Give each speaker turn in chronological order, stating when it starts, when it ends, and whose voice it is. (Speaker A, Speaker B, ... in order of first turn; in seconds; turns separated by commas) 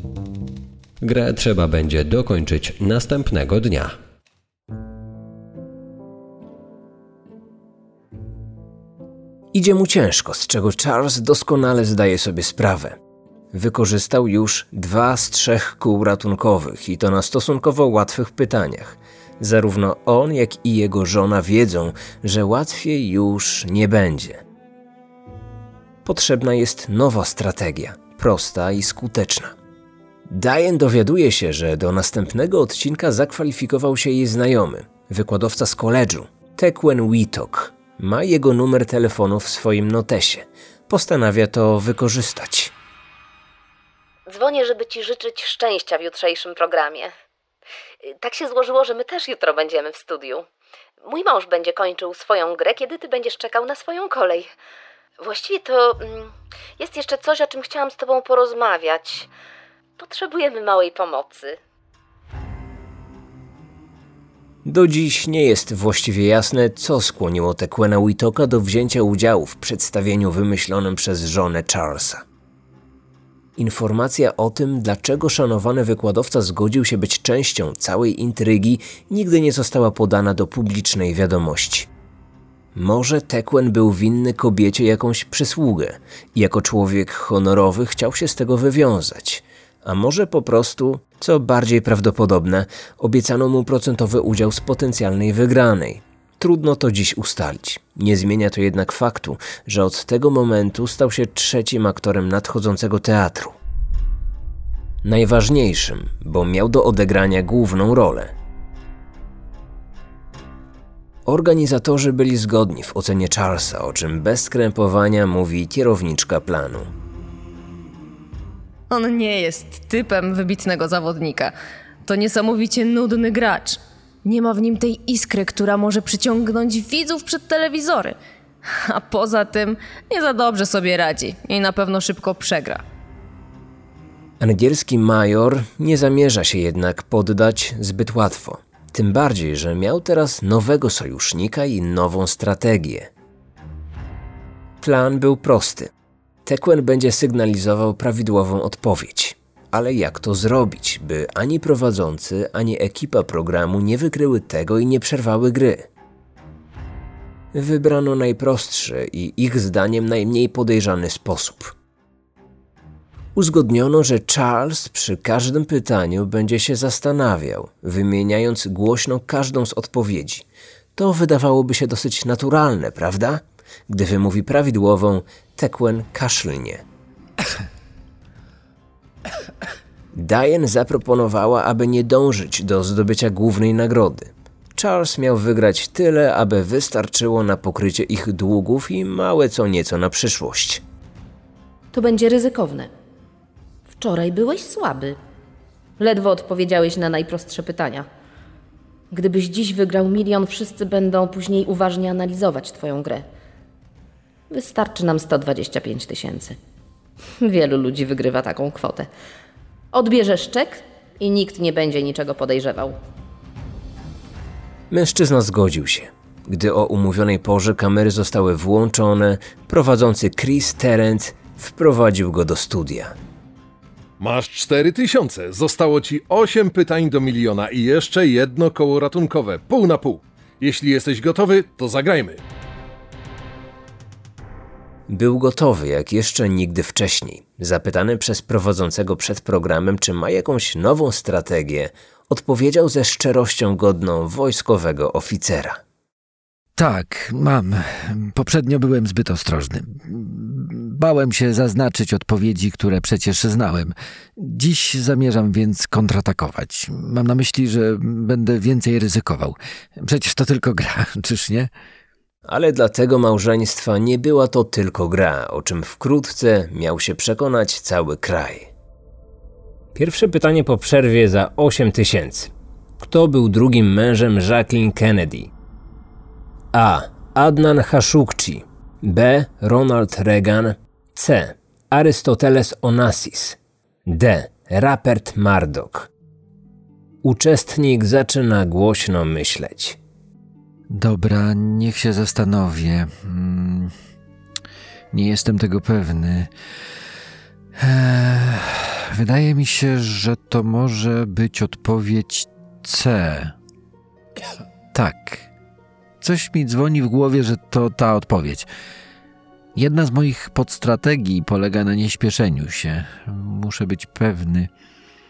Speaker A: 1.0-3.9, Speaker B: 9.5-12.9, Speaker B: 13.5-24.4, Speaker B: 26.0-29.5, Speaker B: 30.3-42.7, Speaker C: 44.3-47.1, Speaker C: 48.0-50.5, Speaker C: 51.0-54.5, Speaker C: 55.2-59.3, Speaker C: 60.0-61.6, Speaker B: 64.7-72.2, Speaker B: 73.6-81.9, Speaker B: 82.7-103.5, Speaker B: 105.0-108.3, Speaker B: 111.3-116.9, Speaker D: 118.9-121.5, Speaker D: 122.0-128.2, Speaker D: 128.8-132.8, Speaker B: 134.4-143.1, Speaker B: 144.8-145.9, Speaker B: 146.4-155.9, Speaker B: 157.5-161.7, Speaker B: 163.3-170.4, Speaker B: 170.9-176.8, Speaker B: 180.1-190.8, Speaker C: 191.9-192.9, Speaker C: 194.0-195.2, Speaker C: 196.0-198.1, Speaker C: 199.1-203.2, Speaker C: 204.5-206.6, Speaker C: 207.4-209.1, Speaker C: 209.9-213.0, Speaker B: 214.9-223.2, Speaker E: 224.2-232.4, Speaker B: 235.1-245.8, Speaker F: 246.8-261.7, Speaker B: 262.5-268.7, Speaker B: 269.9-275.5, Speaker B: 276.7-286.1, Speaker B: 287.2-290.0, Speaker F: 290.9-293.9, Speaker F: 295.1-296.5, Speaker F: 297.8-303.5, Speaker F: 304.9-305.5, Speaker F: 306.2-308.7, Speaker F: 309.7-314.7